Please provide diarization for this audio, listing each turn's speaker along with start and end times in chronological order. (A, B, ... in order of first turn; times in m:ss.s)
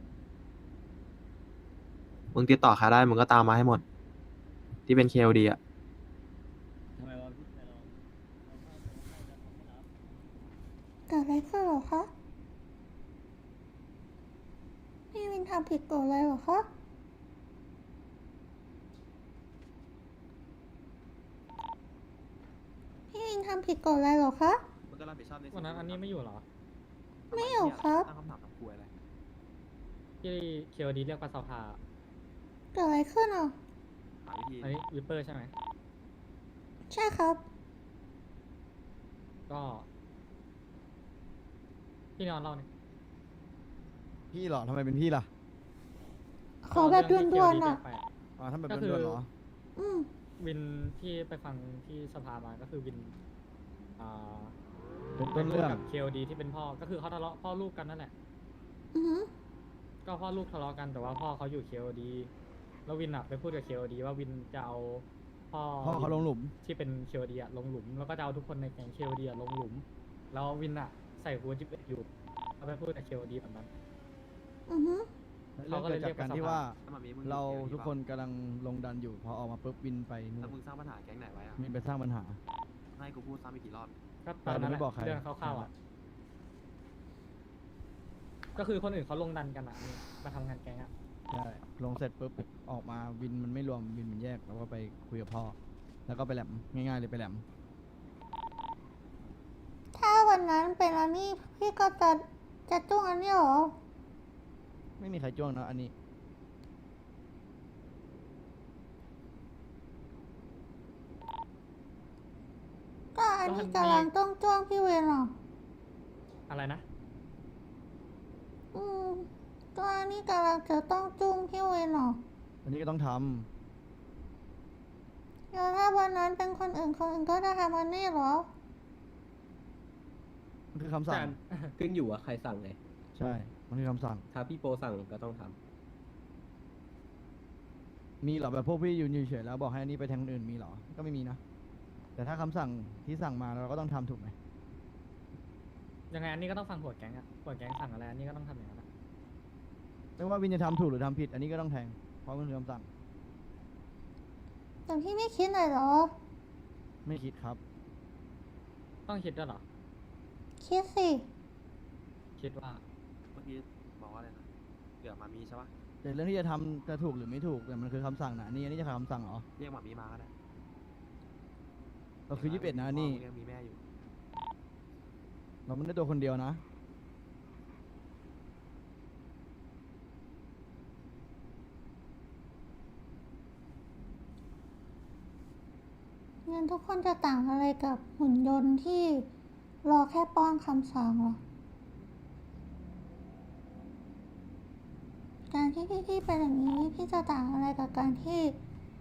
0:02.3-0:03.8 A
0:04.9-0:05.6 A
0:07.0-0:09.9 B
0:11.1-0:12.1 C
0:15.1-0:16.7 C
0:23.1-0:24.6 C
0:24.9-0:26.1 A
0:25.5-0:26.4 D
0:27.3-0:28.9 A
0:27.3-0:28.1 C
0:30.2-0:31.8 D
0:32.7-0:33.6 C
0:34.2-0:34.8 A
0:34.6-0:35.5 D
0:36.9-0:37.4 C
0:39.5-0:39.8 D
0:42.2-0:42.7 D
0:44.3-0:45.3 E
0:46.6-0:47.8 C
0:46.7-0:48.1 D
0:48.4-0:49.3 E
0:48.7-0:49.2 D
0:49.8-0:50.1 C
0:50.4-0:53.1 D
0:54.0-0:54.5 D
0:55.2-0:55.8 E
0:55.3-0:58.1 D
0:58.9-0:59.3 C
1:00.0-1:02.3 D
1:02.8-1:12.1 D
1:05.8-1:06.5 E
1:12.6-1:13.7 D
1:14.7-1:15.1 C
1:15.6-1:20.5 E
1:15.7-1:16.6 D
1:16.8-1:17.9 A
1:20.4-1:21.6 A
1:21.6-1:22.4 E
1:22.9-1:23.9 A
1:24.2-1:25.7 D
1:24.4-1:25.7 E
1:28.6-1:30.9 D
1:31.3-1:35.6 E
1:36.1-1:37.4 E
1:40.0-1:43.7 C
1:45.0-1:45.9 E
1:53.1-1:55.3 C
1:53.4-1:54.1 D
1:56.5-1:56.8 D
1:58.7-2:02.2 C
2:02.6-2:03.5 E
2:05.5-2:08.5 C
2:10.7-2:11.4 E
2:11.1-2:12.8 F
2:13.1-2:14.2 E
2:14.3-2:15.6 F
2:18.2-2:21.4 E
2:22.2-2:24.3 E
2:26.1-2:28.8 D
2:30.2-2:32.9 E
2:34.9-2:36.1 C
2:37.0-2:37.6 E
2:39.1-2:39.6 D
2:40.6-2:41.3 C
2:42.4-2:42.8 D
2:43.3-2:44.5 A
2:45.0-2:45.7 A
2:46.0-2:49.4 E
2:49.6-2:50.3 A
2:52.3-2:53.2 E
2:52.3-2:53.8 A
2:55.6-2:56.6 E
3:06.4-3:09.3 C
3:09.8-3:11.4 C
3:15.5-3:18.6 C